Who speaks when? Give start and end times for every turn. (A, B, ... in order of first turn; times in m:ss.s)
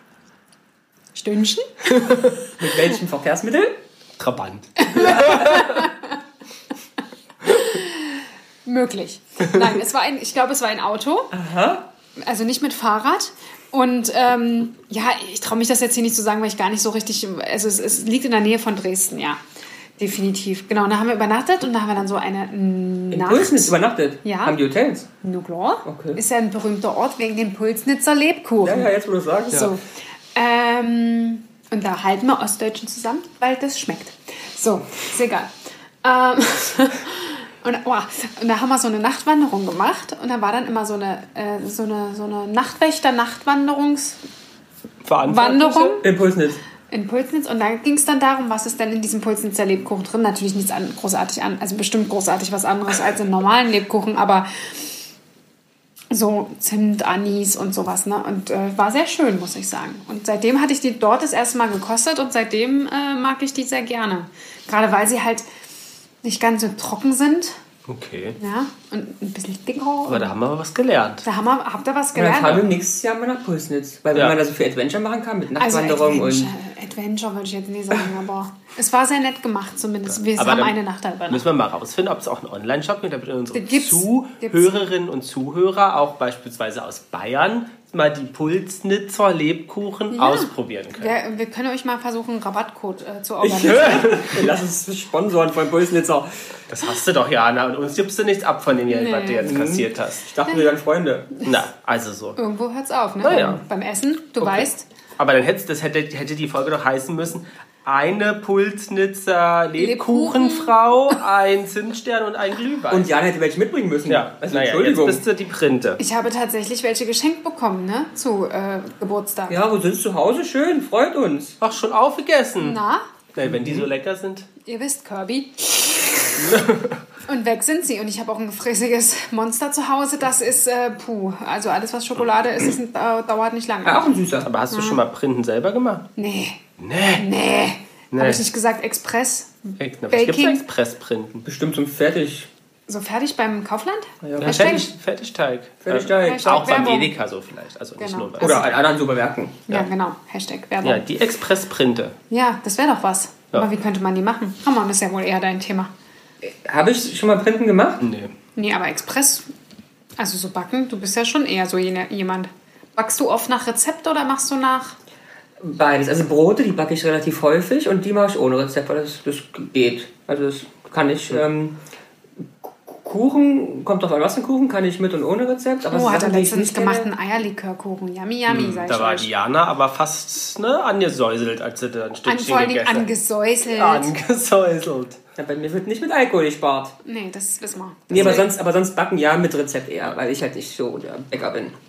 0:01.2-0:02.3 A
0:02.6-0:03.8 B
0:04.2-0:05.9 C
0:04.8-0:06.2 A
0:07.4-0:11.3 A
0:11.3-0:11.9 B
0:12.2-0:19.4 A
0:20.0-0:23.7 A
0:23.1-0:25.1 B
0:24.2-0:24.6 A
0:25.2-0:28.9 A
0:25.8-0:26.2 B
0:28.6-0:29.7 B
0:29.5-0:29.8 A
0:30.4-0:35.5 A
0:36.0-0:44.2 A
0:45.0-0:46.0 C
0:45.2-0:46.1 A
0:46.0-0:46.6 B
0:46.9-0:54.9 A
0:56.1-1:05.4 A
1:06.2-1:07.6 A
1:07.9-1:08.4 C
1:08.4-1:10.3 A
1:10.1-1:11.3 C
1:11.2-1:12.7 A
1:12.2-1:16.5 B
1:15.6-1:21.4 A
1:20.1-1:31.2 C
1:23.5-1:24.8 A
1:30.1-1:34.4 A
1:33.4-1:36.6 B
1:36.7-1:40.3 C
1:38.9-1:39.5 A
1:39.4-1:41.3 B
1:41.4-1:42.4 C
1:42.4-1:44.8 A
1:43.2-1:43.6 C
1:44.4-1:53.1 C
1:49.8-1:50.7 A
1:52.9-1:55.2 B
1:54.1-1:56.0 C
1:56.0-1:59.6 A
1:59.5-2:01.6 B
2:01.6-2:02.8 C
2:02.6-2:03.0 A
2:03.3-2:04.5 C
2:04.6-2:06.6 A
2:06.4-2:07.0 C
2:07.3-2:14.1 A
2:13.8-2:14.5 B
2:14.4-2:16.1 C
2:14.7-2:15.0 A
2:16.2-2:20.6 A
2:16.8-2:17.3 C
2:18.1-2:18.4 C
2:19.8-2:21.4 C
2:21.4-2:22.5 B
2:22.9-2:24.9 A
2:24.2-2:24.9 B
2:24.4-2:28.7 C
2:25.8-2:26.6 B
2:26.2-2:27.1 A
2:28.0-2:28.7 A
2:28.4-2:29.7 B
2:29.7-2:31.0 A
2:30.8-2:32.2 C
2:32.3-2:35.9 A
2:36.4-2:38.0 B
2:38.0-2:38.4 C
2:38.6-2:39.5 A
2:40.2-2:45.0 A
2:45.6-2:51.8 B
2:52.6-2:57.1 B
2:55.9-2:59.3 A
2:58.5-3:03.1 C
3:02.3-3:04.1 A
3:03.7-3:05.2 C
3:05.4-3:07.0 B
3:07.0-3:08.5 A
3:08.1-3:11.8 B
3:08.2-3:08.4 C